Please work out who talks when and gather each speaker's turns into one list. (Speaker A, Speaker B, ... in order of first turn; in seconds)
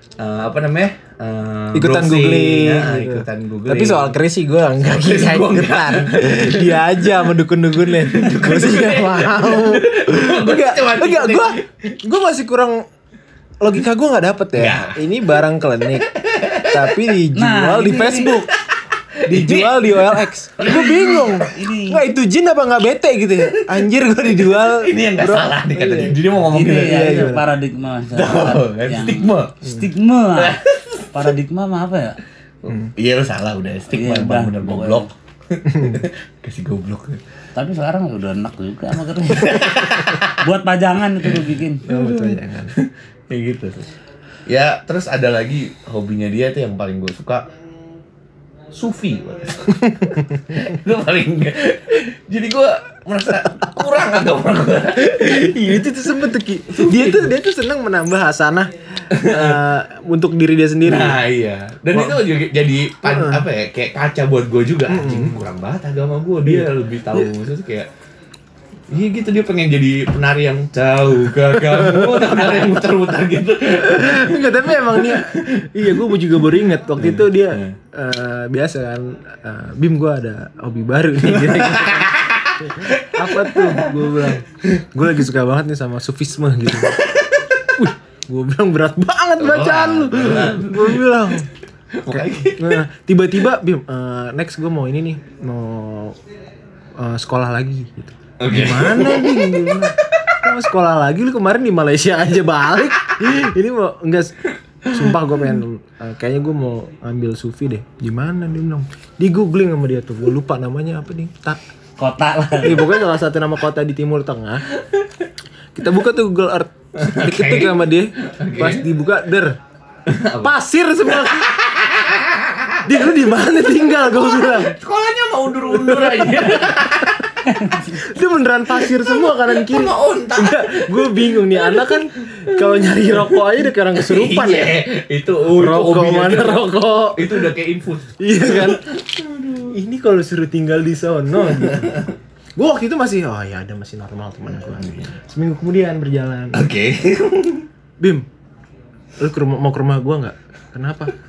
Speaker A: 0.2-4.2, 4.8-6.9, 7.8-11.7, 14.6-15.0, 16.1-17.0, 19.1-21.4, 23.4-23.9, 24.4-27.2, 28.1-29.6, 30.3-31.2, 32.6-37.2, 39.3-40.4, 41.8-43.9, 44.5-47.5, 48.7-55.8, 56.8-57.3, 59.1-59.6, 60.8-67.9, 68.9-76.0, 77.0-77.8, 81.3-84.8, 86.8-87.5, 89.4-91.1, 91.9-92.8, 98.4-99.7, 117.0-118.8, 120.1-120.5, 121.1-123.0, 124.3-127.2, 128.8-139.8, 141.5-142.1, 144.8-145.1, 146.5-147.7
Speaker B: 1.7-12.8, 13.6-16.1, 16.7-18.5, 19.2-27.5, 35.7-36.0, 41.9-42.7, 49.8-50.4, 55.0-61.2, 61.9-62.2, 63.0-63.5, 64.9-65.4, 66.4-67.3, 71.5-72.8, 73.8-87.0, 87.8-91.5, 92.1-96.2, 97.0-111.6, 112.6-114.7, 115.7-119.6, 120.4-121.6, 122.8-124.8, 125.6-127.1, 127.9-134.9, 135.5-137.5, 138.2-138.8, 139.7-142.0, 142.6-146.7, 148.0-148.3, 149.2-151.1
Speaker C: 17.3-18.4, 20.6-22.0, 26.5-30.6, 31.1-32.2, 33.9-35.1, 37.5-41.8, 112.0-112.9